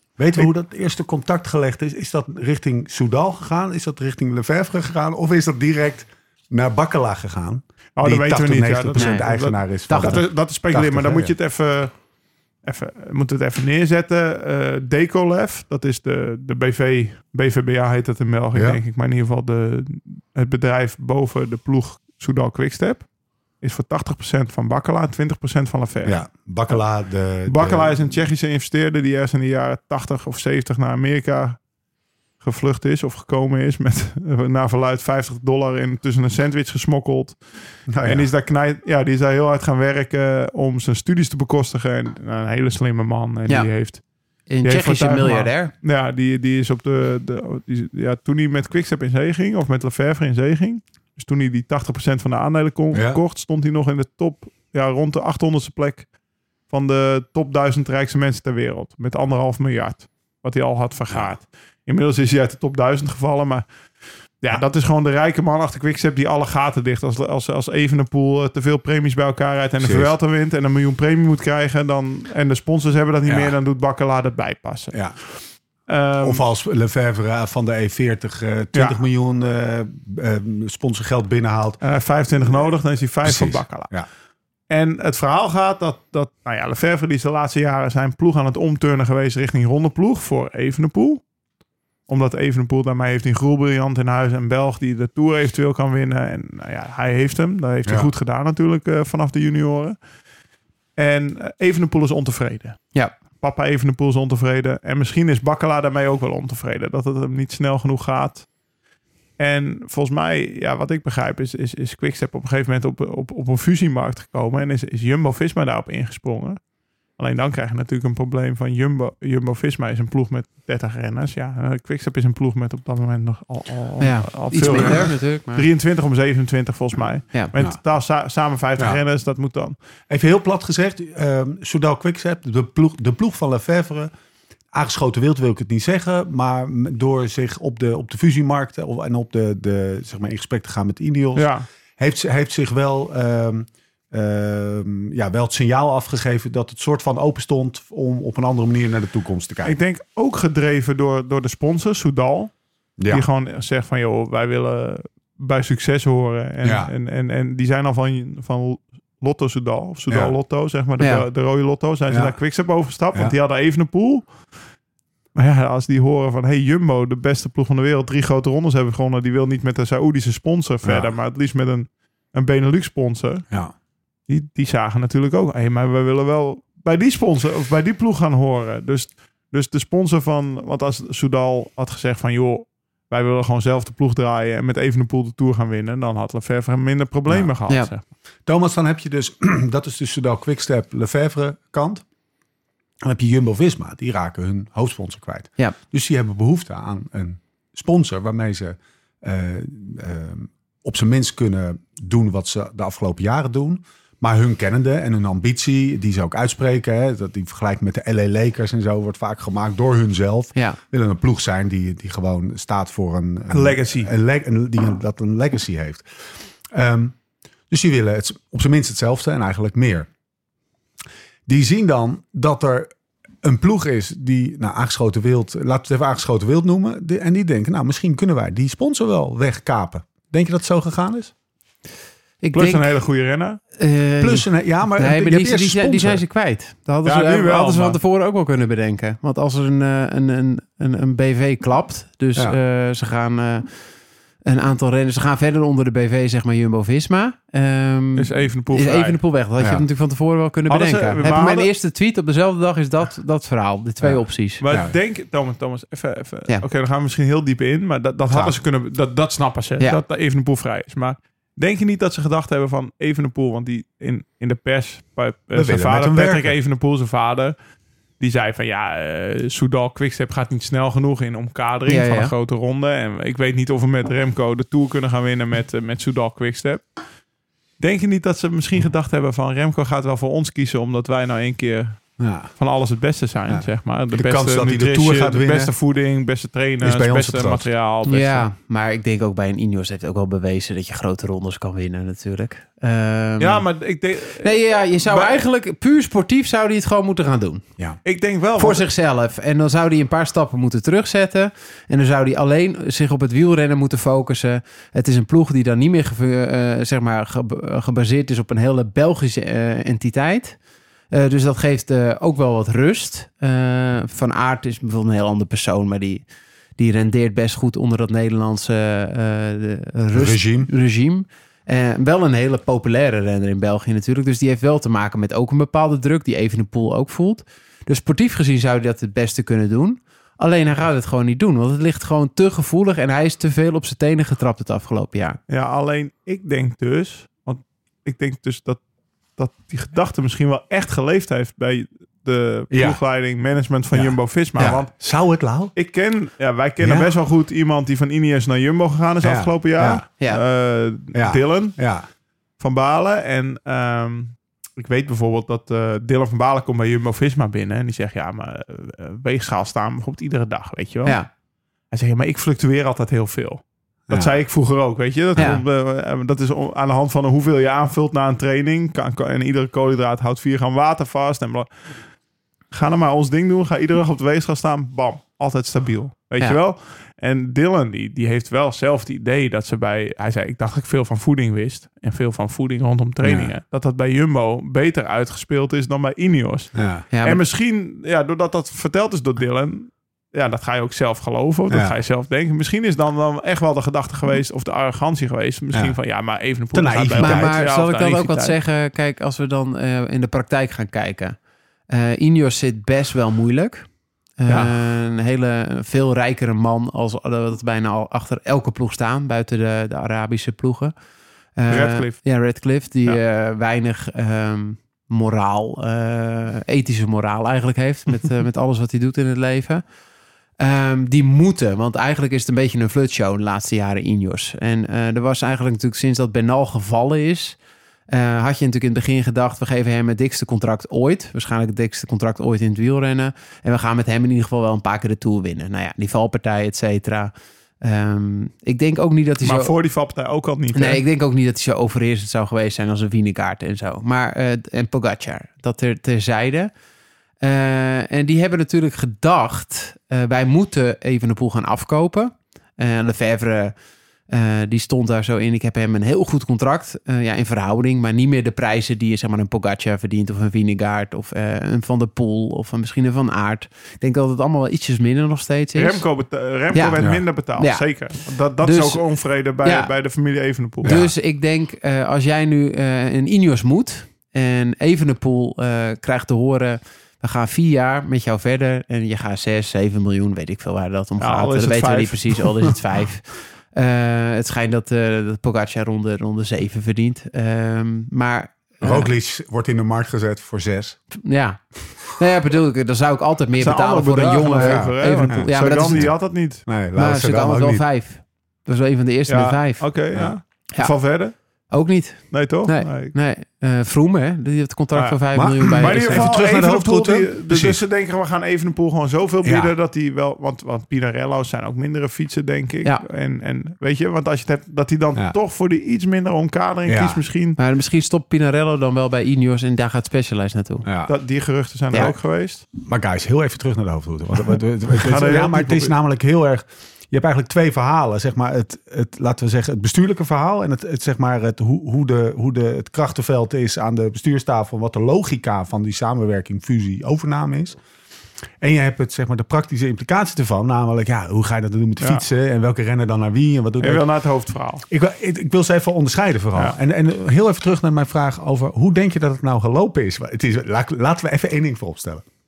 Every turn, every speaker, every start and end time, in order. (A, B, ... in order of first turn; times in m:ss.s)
0:00.2-0:11.3 A
0:08.0-0:11.9 B
0:09.0-0:09.3 C
0:09.9-0:10.2 C
0:12.6-0:23.0 B
0:18.6-0:18.8 A
0:23.6-0:26.8 B
0:26.0-0:28.1 A
0:27.5-0:31.6 B
0:32.4-0:37.4 B
0:37.9-0:38.3 A
0:38.0-0:44.0 B
0:44.5-0:45.7 C
0:44.6-0:56.1 B
0:52.9-0:53.2 A
0:56.7-1:03.7 B
1:04.4-1:15.0 B
1:09.8-1:10.1 A
1:13.3-1:13.5 A
1:15.9-1:16.4 B
1:16.2-1:21.8 A
1:18.7-1:19.0 B
1:21.8-1:23.9 B
1:23.2-1:24.1 A
1:24.7-1:31.2 B
1:32.1-1:40.0 B
1:41.0-1:42.8 B
1:43.4-1:48.5 B
1:49.4-1:56.6 B
1:57.2-2:09.8 B
2:04.0-2:05.7 C
2:10.1-2:14.1 A
2:14.7-2:29.8 A
2:21.4-2:21.6 B
2:29.6-2:32.5 B
2:33.0-2:33.2 A
2:33.1-2:44.3 B
2:36.6-2:36.9 A
2:41.0-2:41.3 C
2:42.1-2:42.4 A
2:45.4-2:53.4 B
2:50.8-2:51.1 A
2:54.3-3:08.0 B
3:08.5-3:12.0 A
3:13.0-3:36.0 A
3:33.5-3:34.1 B
3:36.7-3:37.2 A
3:37.7-3:40.1 A
3:41.5-3:42.9 A
3:43.4-3:51.3 A
3:52.4-3:52.9 C
3:52.5-3:53.6 B
3:53.8-4:03.7 C
3:54.2-3:56.2 A
3:57.0-3:58.0 B
4:04.4-4:14.6 C
4:08.2-4:09.2 B
4:10.7-4:11.7 B
4:14.6-4:27.6 B
4:18.3-4:18.6 A
4:25.5-4:26.5 A
4:28.2-4:36.8 B
4:31.9-4:32.3 C
4:37.8-4:42.0 B
4:42.2-4:42.5 A
4:42.6-4:48.5 B
4:43.5-4:45.7 A
4:46.8-4:47.7 A
4:48.0-4:53.7 C
4:53.4-4:55.4 B
4:54.4-4:57.6 C
4:58.0-4:58.9 B
4:58.6-5:10.6 C
5:11.1-5:16.2 C
5:16.8-5:35.4 C
5:20.1-5:20.7 A
5:35.5-5:38.8 B
5:39.4-5:44.9 B
5:42.7-5:43.0 A
5:43.9-5:45.7 A
5:45.8-5:51.8 B
5:46.8-5:47.1 A
5:49.2-5:50.0 A
5:51.1-5:52.1 A
5:52.6-6:01.2 B
6:01.9-6:11.7 B
6:05.4-6:05.6 C
6:12.7-6:38.6 B
6:23.2-6:23.5 A
6:26.8-6:27.0 A
6:27.1-6:27.4 C
6:31.7-6:32.0 A
6:36.7-6:37.6 A
6:37.2-6:41.4 C
6:41.9-6:43.9 C
6:44.4-6:50.9 C
6:44.5-6:44.8 B
6:51.6-6:59.8 C
6:51.7-6:52.2 B
7:00.6-7:07.6 C
7:08.1-7:19.7 C
7:19.4-7:21.0 B
7:20.7-7:26.7 C
7:27.4-7:33.8 C
7:34.3-7:46.0 C
7:45.8-7:51.0 B
7:46.7-7:47.8 C
7:48.6-7:49.0 C
7:49.6-7:49.9 C
7:50.8-8:09.1 C
7:50.8-7:51.1 A
8:01.2-8:02.6 B
8:08.8-8:11.0 A
8:11.1-8:16.1 C
8:13.6-8:16.6 B
8:14.6-8:16.1 A
8:16.7-8:17.8 A
8:17.0-8:19.9 C
8:19.3-8:21.3 B
8:21.7-8:26.3 C
8:22.3-8:23.1 B
8:24.9-8:37.6 B
8:25.4-8:27.8 A
8:29.4-8:29.7 A
8:36.9-8:37.2 A
8:37.6-8:40.9 C
8:40.8-8:41.1 A
8:41.1-8:42.6 B
8:42.8-8:57.8 A
8:44.9-8:45.9 B
8:58.6-9:04.0 A
9:03.8-9:04.8 B
9:04.9-9:12.2 A